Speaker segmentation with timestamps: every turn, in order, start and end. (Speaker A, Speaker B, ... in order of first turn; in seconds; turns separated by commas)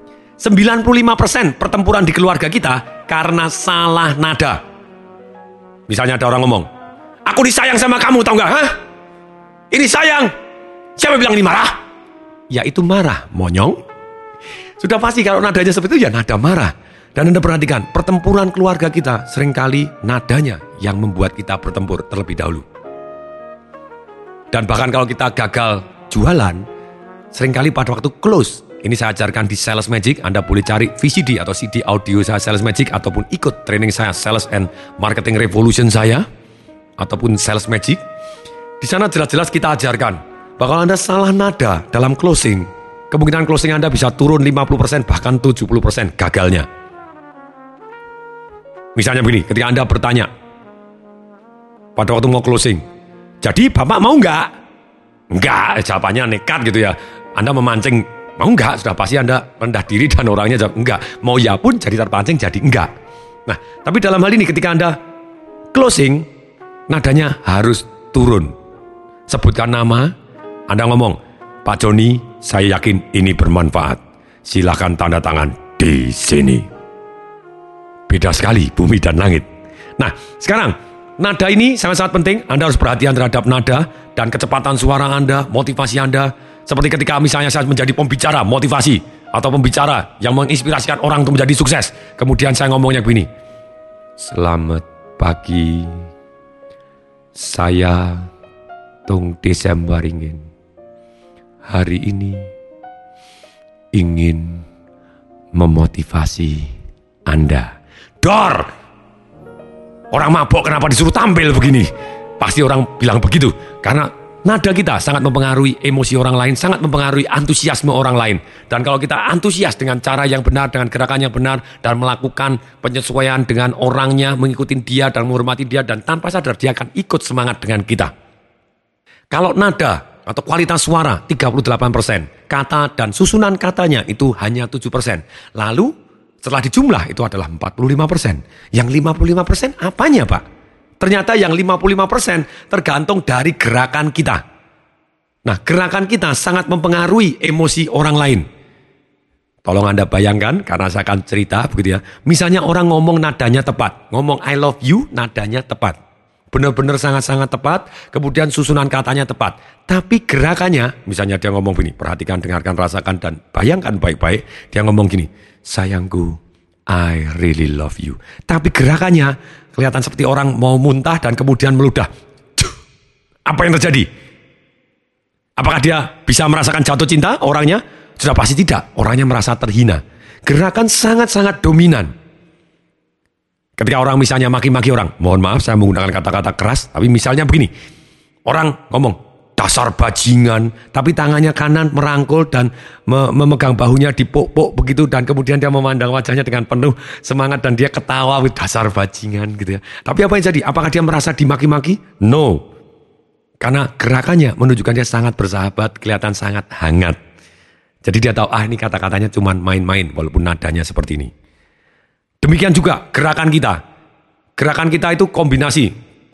Speaker A: 0.4-4.6, Speaker A: 5.9-6.7, Speaker A: 7.3-8.8, Speaker A: 9.7-10.3, Speaker A: 11.0-11.7, Speaker A: 12.5-13.8, Speaker A: 14.8-22.6, Speaker A: 24.5-26.6, Speaker A: 27.3-36.2, Speaker A: 37.0-38.0, Speaker A: 38.8-46.7, Speaker A: 48.9-50.3, Speaker A: 52.0-52.8, Speaker A: 53.4-54.5, Speaker A: 55.3-62.9, Speaker A: 63.5-65.0, Speaker A: 65.7-66.3, Speaker A: 66.9-68.5, Speaker A: 69.3-70.1, Speaker A: 70.7-76.7, Speaker A: 78.1-79.5, Speaker A: 80.0-93.3, Speaker A: 94.2-96.1, Speaker A: 97.3-98.3, Speaker A: 99.0-100.4, Speaker A: 101.7-102.5, Speaker A: 103.9-104.6, Speaker A: 105.5-106.7, Speaker A: 107.3-108.7, Speaker A: 110.1-111.9, Speaker A: 112.4-128.1, Speaker A: 129.3-135.9, Speaker A: 136.4-140.4, Speaker A: 141.0-144.4, Speaker A: 145.4-148.4, Speaker A: 149.6-156.0, Speaker A: 156.5-166.4, Speaker A: 166.9-172.7, Speaker A: 173.5-174.1, Speaker A: 175.6-182.1, Speaker A: 183.8-187.7, Speaker A: 188.5-202.6, Speaker A: 203.6-207.2, Speaker A: 208.0-211.3, Speaker A: 212.4-213.8, Speaker A: 214.6-215.9